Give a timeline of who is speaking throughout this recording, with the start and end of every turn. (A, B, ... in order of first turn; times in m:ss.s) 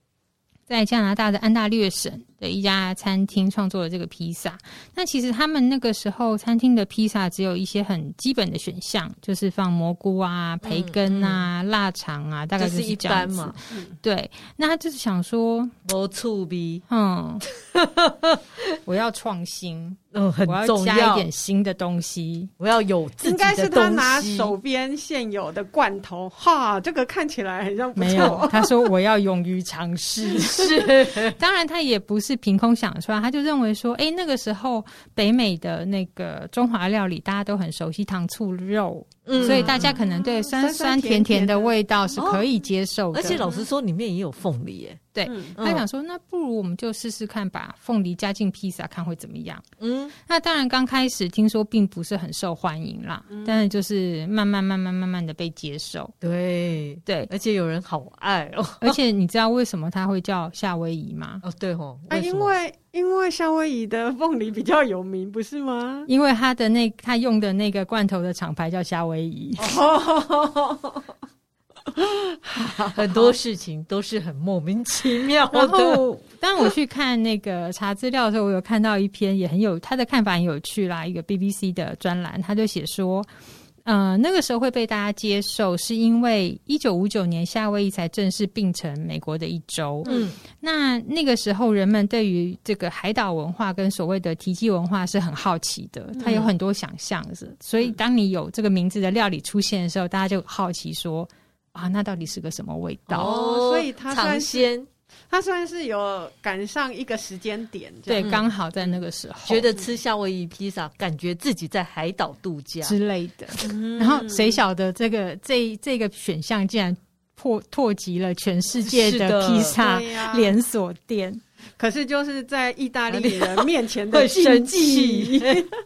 0:00.7-0:15.7 A
0:10.6-0:11.5 B
0:12.6-0:13.6 B
0:15.8-0:16.8 B
0:16.9-0:17.4 A
0:17.5-0:18.8 B
0:18.9-0:22.5 A
0:20.1-0:21.3 B
0:22.6-0:24.5 B
0:23.2-0:28.9 C
0:28.0-0:43.5 A
0:30.3-0:31.4 B
0:39.3-0:40.0 B
0:39.3-0:42.4 C
0:42.2-0:42.4 B
0:43.1-0:45.0 B
0:43.2-0:43.7 C
0:45.1-0:49.6 A
0:45.3-0:45.6 C
0:45.6-0:45.8 B
0:49.8-0:50.1 B
0:50.3-0:56.1 A
0:53.3-0:53.7 C
0:56.2-0:59.0 B
0:58.8-1:01.4 A
1:01.4-1:02.5 B
1:02.1-1:06.1 C
1:06.1-1:09.8 A
1:09.6-1:11.1 C
1:11.9-1:13.4 C
1:13.0-1:16.0 B
1:15.5-1:23.3 A
1:23.8-1:43.3 A
1:30.0-1:30.3 C
1:30.0-1:30.4 B
1:36.2-1:36.5 C
1:36.2-1:36.5 B
1:43.1-1:44.9 B
1:43.2-1:44.7 C
1:45.3-1:48.5 C
1:48.1-1:49.7 A
1:48.2-1:48.5 B
1:49.5-1:53.0 B
1:52.8-2:01.4 A
1:53.6-1:54.6 C
1:58.8-1:59.8 B
1:59.7-2:00.5 C
2:01.8-2:05.8 C
2:03.1-2:05.6 B